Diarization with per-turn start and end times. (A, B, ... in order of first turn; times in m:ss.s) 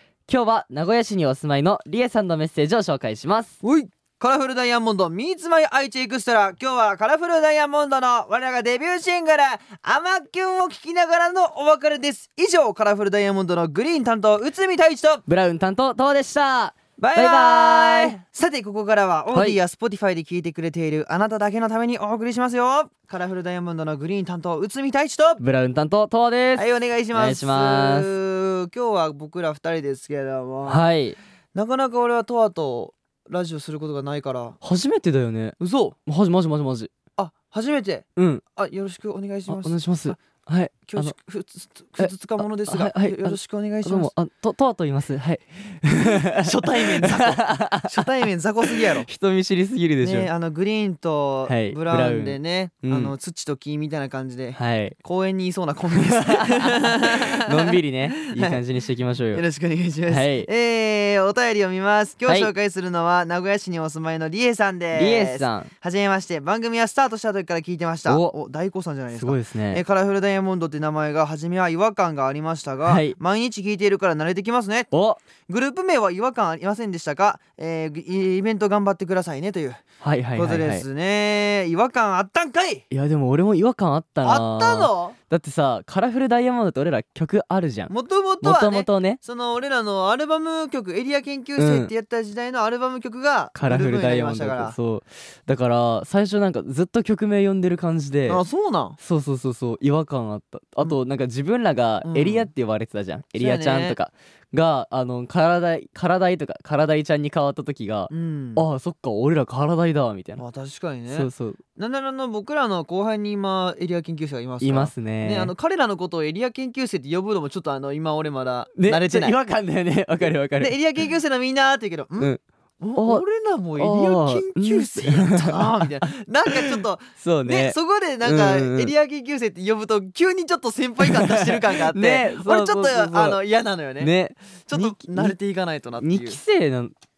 0:00.3-0:03.6 A
0:03.6-0:15.2 B
0:15.3-0:18.2 A
0:17.0-0:25.4 B
0:19.3-0:19.6 A
0:25.4-0:28.1 A
0:26.6-0:30.8 B
0:30.7-0:31.2 A
0:31.6-0:34.6 B
0:34.6-0:36.9 A
0:35.6-0:36.0 B
0:37.2-0:40.2 B
0:38.2-0:38.4 A
0:39.5-0:41.1 A
0:40.9-0:44.1 B
0:42.0-0:48.0 A
0:46.4-0:49.1 B
0:49.0-0:50.3 A
0:50.0-0:58.6 B
0:51.5-0:53.1 A
0:54.6-0:55.0 A
0:56.0-0:59.4 A
0:59.3-1:14.9 B
1:00.1-1:00.5 A
1:02.2-1:02.5 A
1:04.9-1:05.7 A
1:08.1-1:08.3 A
1:09.1-1:09.8 A
1:12.8-1:13.2 A
1:14.9-1:15.2 A
1:15.5-1:19.8 B
1:20.0-1:20.8 A
1:20.4-1:22.8 B
1:22.9-1:29.2 A
1:24.2-1:25.2 B
1:27.9-1:34.8 B
1:31.6-1:31.9 A
1:33.6-1:38.4 A
1:38.3-1:39.0 B
1:39.0-1:50.4 A
1:42.0-1:42.5 B
1:43.4-1:44.0 B
1:48.1-1:48.7 B
1:50.4-1:59.4 B
1:51.1-1:51.6 A
1:54.6-1:55.5 A
1:58.8-2:00.8 A
2:00.6-2:14.1 B
2:03.0-2:03.2 A
2:03.8-2:05.6 A
2:06.5-2:08.9 A
2:11.0-2:13.4 A
2:14.0-2:15.4 A
2:14.7-2:16.4 B
2:16.0-2:16.9 A